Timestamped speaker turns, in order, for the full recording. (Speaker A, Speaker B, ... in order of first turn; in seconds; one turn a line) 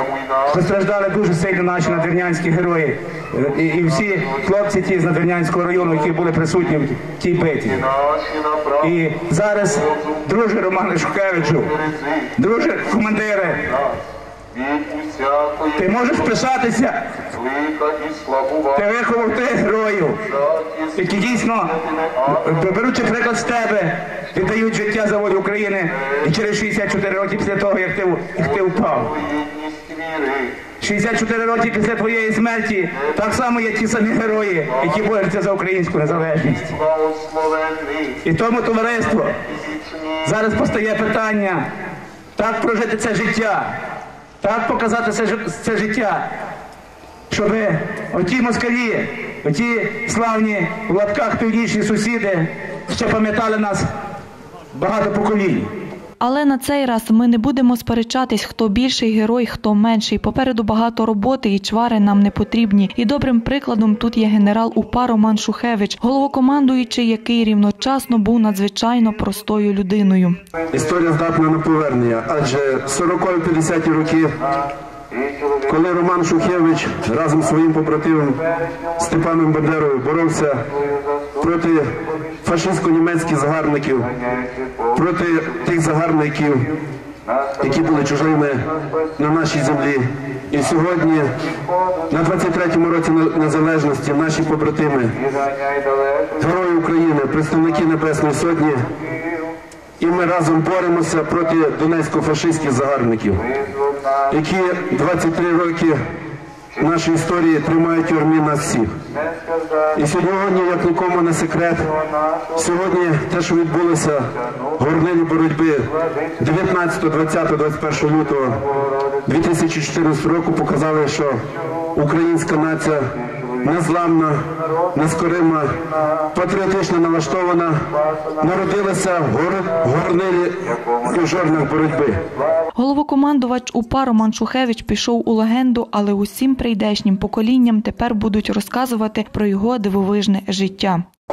Speaker A: 0.4-7.9
Speaker B: 8.0-8.7
Speaker A: 8.8-11.8
Speaker A: 12.3-13.9
Speaker B: 14.6-15.6
Speaker A: 15.7-17.3
Speaker B: 17.4-18.7
Speaker A: 18.7-20.2
Speaker B: 20.5-20.8
Speaker A: 20.9-29.2
Speaker B: 29.3-30.6
Speaker A: 30.7-36.8
Speaker B: 36.9-38.1
Speaker A: 38.2-39.4
Speaker A: 40.2-41.6
Speaker A: 42.4-43.7
Speaker A: 44.4-46.3
Speaker A: 47.3-53.9
Speaker A: 54.7-55.7
Speaker C: 56.2-70.4
Speaker D: 70.7-74.4
Speaker D: 75.6-78.4
Speaker D: 79.0-80.7
Speaker D: 81.3-84.1
Speaker D: 84.9-86.7
Speaker D: 87.6-91.5
Speaker D: 92.1-95.2
Speaker D: 96.3-98.9
Speaker D: 100.0-103.5
Speaker D: 104.3-106.0
Speaker D: 106.7-109.0
Speaker D: 109.9-118.7
Speaker D: 119.2-132.2
Speaker C: 132.8-141.0